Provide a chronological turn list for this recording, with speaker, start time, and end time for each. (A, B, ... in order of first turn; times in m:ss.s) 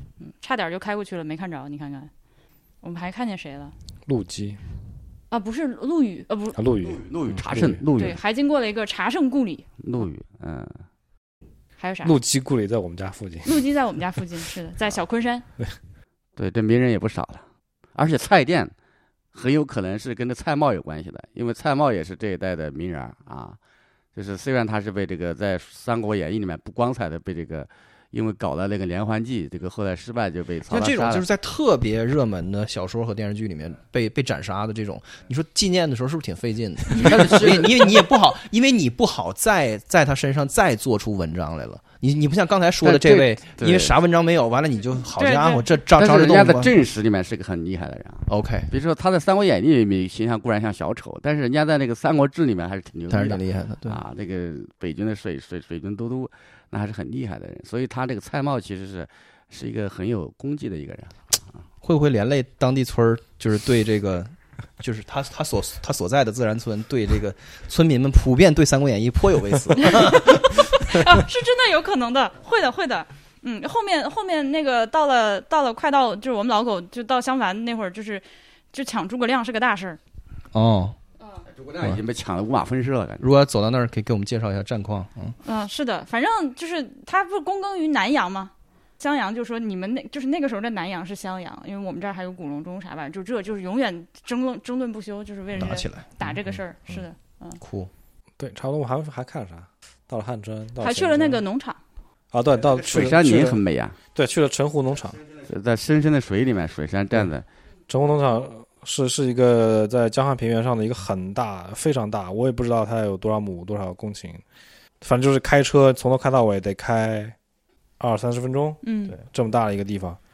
0:00.2-0:02.1 A
0:02.8-0:03.7 A
0:04.1-0:04.6 B
0:05.3-0:06.6 A
0:06.6-0:07.8 B
0:06.8-0:08.2 C
0:08.0-0:09.6 A
0:09.8-0:10.8 C
0:11.8-0:12.2 A
0:12.0-0:13.6 B
0:13.4-0:15.4 A
0:16.4-0:18.7 C
0:19.3-0:23.6 C
0:24.1-0:31.2 C
0:30.7-0:46.7 D
0:36.9-0:38.1 C
0:42.8-0:43.9 C
0:45.2-0:45.6 A
0:46.0-1:01.6 C
0:48.3-0:48.7 D
0:53.1-0:54.0 D
1:01.8-1:11.1 D
1:09.8-1:20.0 A
1:20.5-1:21.0 D
1:21.5-1:23.2 C
1:23.2-1:25.4 D
1:25.4-1:37.6 A
1:35.6-1:36.2 D
1:37.6-1:37.9 D
1:38.4-1:41.4 B
1:40.8-1:41.8 A
1:42.3-1:43.6 B
1:42.8-1:44.0 C
1:44.1-1:45.2 B
1:45.4-1:47.4 C
1:47.9-1:54.4 B
1:55.0-1:57.3 B
1:58.0-2:00.2 B
1:58.8-1:59.1 A